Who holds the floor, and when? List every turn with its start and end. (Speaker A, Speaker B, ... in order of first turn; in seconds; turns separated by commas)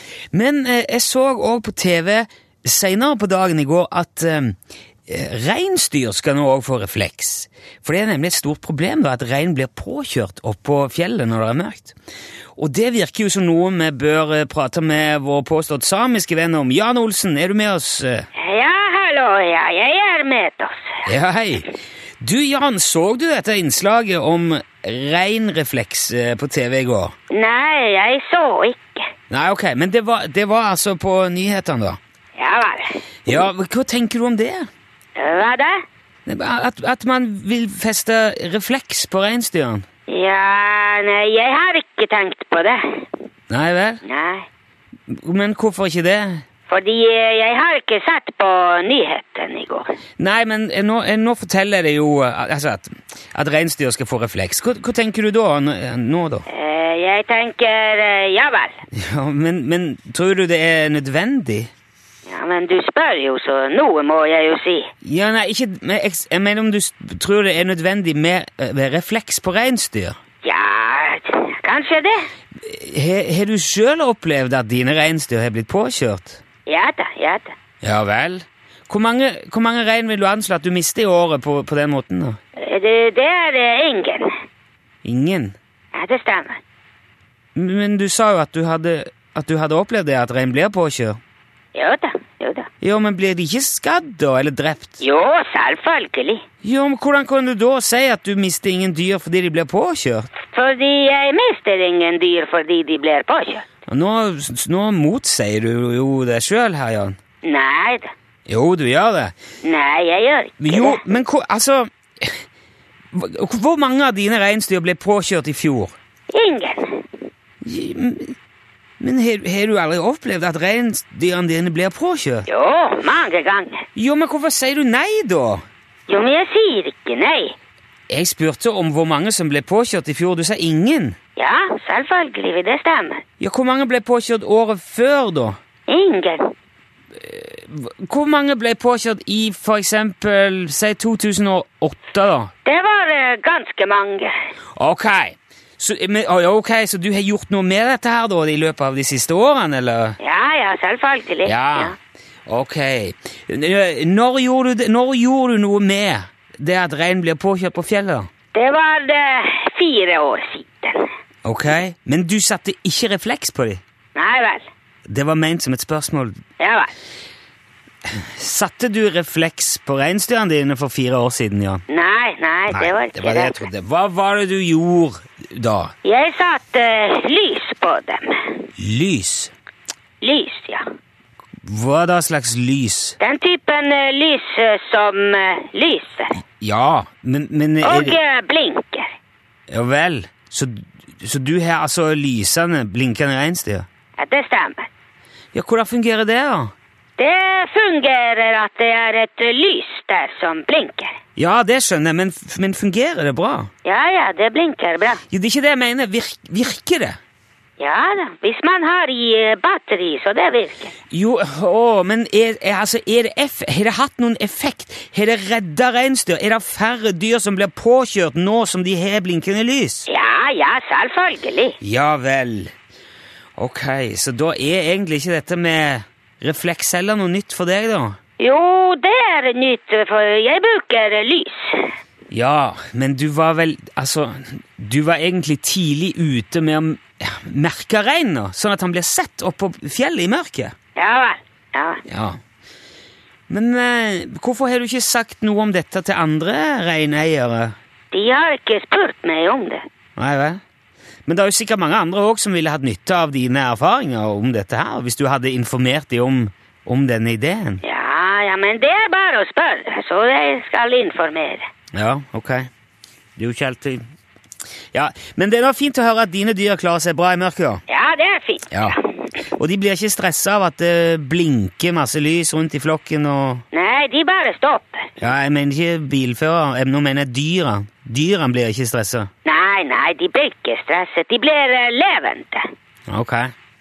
Speaker A: 0.3-4.5, Speaker A: 5.1-11.9, Speaker A: 12.6-18.3, Speaker B: 18.4-21.0, Speaker A: 21.0-27.1, Speaker B: 27.3-29.0, Speaker A: 29.3-32.0, Speaker B: 32.4-33.0, Speaker A: 33.2-34.7, Speaker B: 35.1-35.8, Speaker A: 36.2-39.8, Speaker B: 40.1-43.1, Speaker A: 43.5-44.0, Speaker B: 44.0-44.5, Speaker A: 45.1-46.4, Speaker B: 46.7-50.0, Speaker A: 50.2-56.5, Speaker B: 56.5-58.8, Speaker A: 58.9-61.7, Speaker B: 62.3-64.9, Speaker A: 65.0-70.2, Speaker B: 70.4-72.2, Speaker A: 72.6-76.4, Speaker B: 76.7-77.5, Speaker A: 77.8-82.4, Speaker B: 82.6-84.3, Speaker A: 85.0-85.5, Speaker B: 85.9-86.6, Speaker A: 87.5-91.2, Speaker B: 91.7-92.7, Speaker A: 92.8-95.0, Speaker B: 95.0-96.4, Speaker A: 96.6-100.3, Speaker B: 100.5-103.6, Speaker A: 103.9-107.2, Speaker B: 107.4-108.1, Speaker A: 108.5-109.3, Speaker B: 109.6-111.0, Speaker A: 110.6-112.4, Speaker A: 113.1-116.0, Speaker B: 116.3-117.0, Speaker A: 117.6-118.3, Speaker A: 119.0-122.5, Speaker B: 122.5-123.8, Speaker A: 124.0-125.6, Speaker B: 126.1-127.5, Speaker A: 128.1-131.2, Speaker B: 131.4-133.2, Speaker A: 133.4-135.6, Speaker B: 135.9-136.5, Speaker A: 137.1-142.5, Speaker B: 142.6-144.3, Speaker A: 144.8-150.2, Speaker B: 150.2-151.9, Speaker A: 151.4-151.9, Speaker A: 152.4-158.3, Speaker B: 158.5-161.1, Speaker A: 161.4-163.8, Speaker B: 164.1-164.7, Speaker A: 165.1-166.4, Speaker B: 166.6-166.9, Speaker A: 168.1-171.8, Speaker B: 171.9-173.6, Speaker A: 172.7-175.9, Speaker B: 176.0-178.6, Speaker A: 178.8-179.5, Speaker B: 180.2-180.8, Speaker A: 181.6-183.2, Speaker B: 183.2-186.4, Speaker A: 186.6-188.2, Speaker B: 187.8-189.1, Speaker A: 189.7-193.8, Speaker B: 194.2-194.9, Speaker A: 195.5-196.7, Speaker B: 197.2-201.1, Speaker A: 201.4-203.7, Speaker B: 203.8-205.2, Speaker A: 205.3-207.2, Speaker B: 207.8-210.9, Speaker A: 211.1-220.1, Speaker B: 220.1-221.8, Speaker A: 221.8-222.7, Speaker A: 223.6-228.2, Speaker B: 228.4-231.9, Speaker A: 232.3-240.7, Speaker B: 240.9-242.0, Speaker A: 242.1-242.4, Speaker A: 243.5-247.7, Speaker B: 248.1-249.8, Speaker A: 250.2-250.6, Speaker A: 251.3-257.8, Speaker B: 257.8-261.7, Speaker A: 261.9-262.7, Speaker A: 263.4-264.0, Speaker A: 264.9-267.8, Speaker B: 267.9-269.1, Speaker A: 268.7-269.0, Speaker A: 269.5-273.6, Speaker B: 273.7-275.1, Speaker A: 275.2-279.3, Speaker B: 279.4-282.6, Speaker A: 283.1-283.5